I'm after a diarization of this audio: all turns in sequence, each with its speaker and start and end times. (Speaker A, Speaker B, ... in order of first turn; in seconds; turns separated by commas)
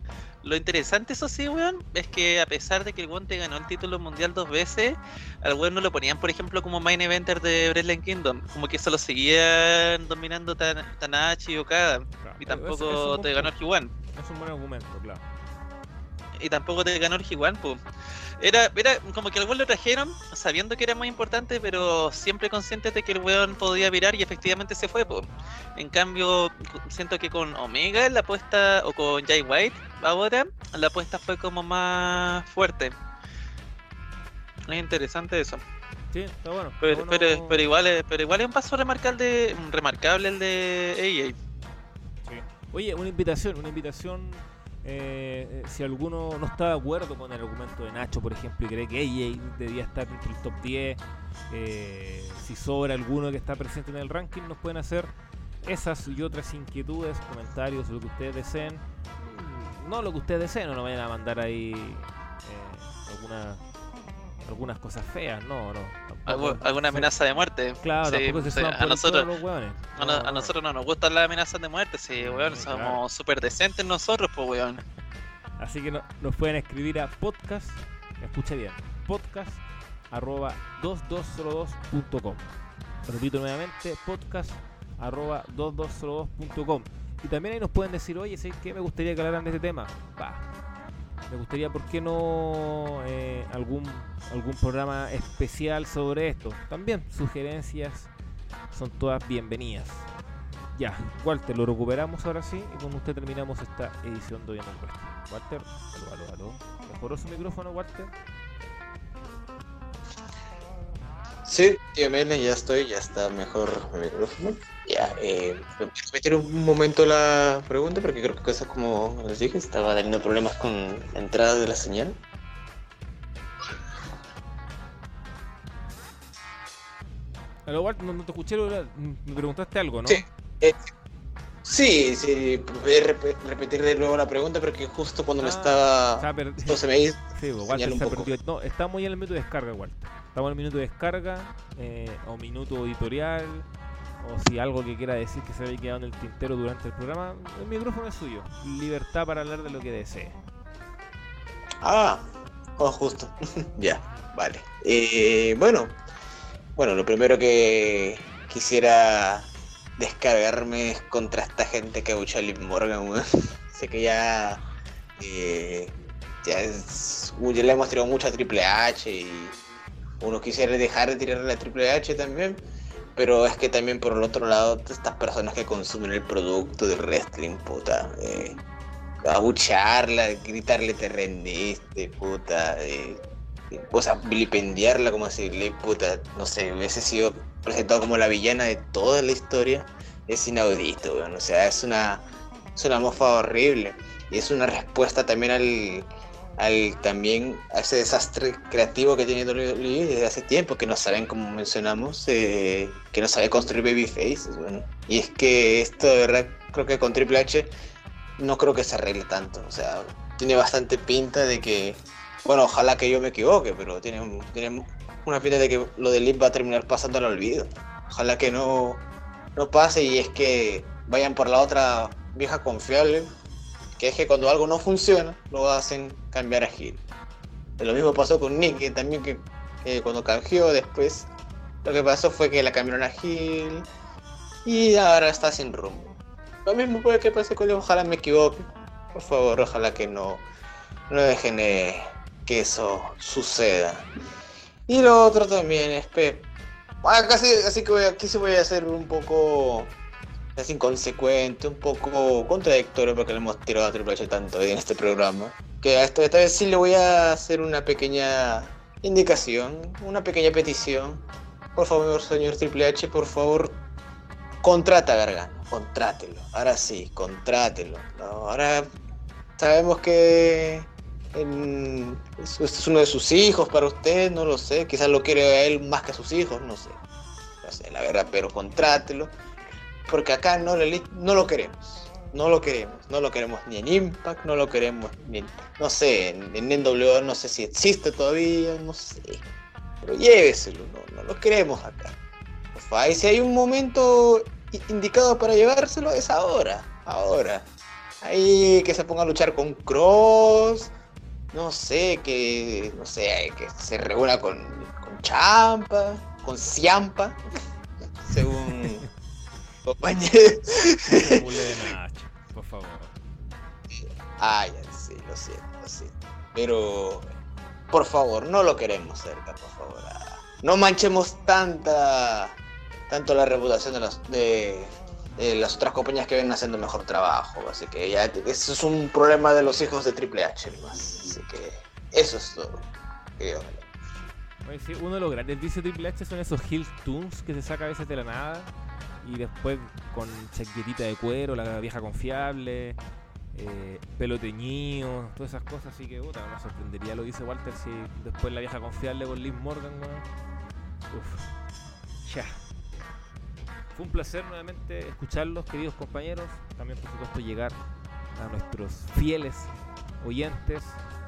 Speaker A: 0.4-13.9, Speaker B: 12.2-13.5, Speaker B: 14.1-15.2, Speaker A: 16.4-17.8, Speaker A: 18.4-32.9, Speaker A: 34.7-35.6, Speaker B: 36.1-37.6, Speaker A: 36.8-41.3, Speaker B: 42.2-55.1, Speaker B: 55.6-63.6, Speaker B: 64.4-67.1, Speaker A: 66.3-69.3, Speaker B: 67.8-70.5, Speaker A: 70.0-74.8, Speaker B: 72.2-73.0, Speaker B: 75.6-82.5, Speaker B: 83.0-90.5, Speaker B: 91.3-98.1, Speaker B: 98.7-100.1, Speaker B: 100.7-108.1, Speaker C: 111.4-122.1, Speaker B: 127.7-130.2, Speaker C: 130.1-130.9, Speaker C: 131.6-138.3, Speaker B: 135.4-136.8, Speaker B: 137.3-143.7, Speaker B: 144.2-150.4, Speaker C: 151.8-152.2, Speaker C: 152.8-156.0, Speaker C: 156.8-164.6, Speaker C: 165.2-169.6, Speaker C: 170.2-172.6, Speaker C: 173.2-178.6, Speaker C: 179.2-183.2, Speaker C: 183.7-207.7, Speaker C: 208.4-219.0, Speaker C: 219.6-223.3, Speaker C: 224.0-227.0, Speaker C: 227.8-231.3, Speaker C: 231.8-233.8, Speaker C: 234.6-236.1, Speaker C: 236.6-240.4, Speaker C: 241.1-244.1, Speaker C: 244.9-246.5, Speaker C: 247.0-249.9, Speaker C: 250.6-261.2, Speaker C: 261.8-263.8, Speaker C: 264.6-268.9, Speaker C: 269.6-277.0, Speaker C: 277.6-279.3, Speaker C: 280.1-289.4, Speaker C: 290.0-292.1, Speaker C: 292.7-297.7, Speaker C: 298.2-300.9, Speaker C: 301.5-307.6, Speaker C: 308.2-309.0, Speaker B: 308.7-309.1, Speaker C: 309.9-311.8, Speaker B: 311.1-313.1, Speaker C: 313.9-317.3, Speaker C: 317.9-322.6, Speaker C: 323.1-332.8, Speaker C: 333.4-333.9, Speaker B: 334.6-343.0, Speaker B: 343.5-350.2, Speaker B: 351.1-351.5, Speaker B: 352.2-352.6, Speaker B: 353.9-357.8, Speaker B: 358.3-361.0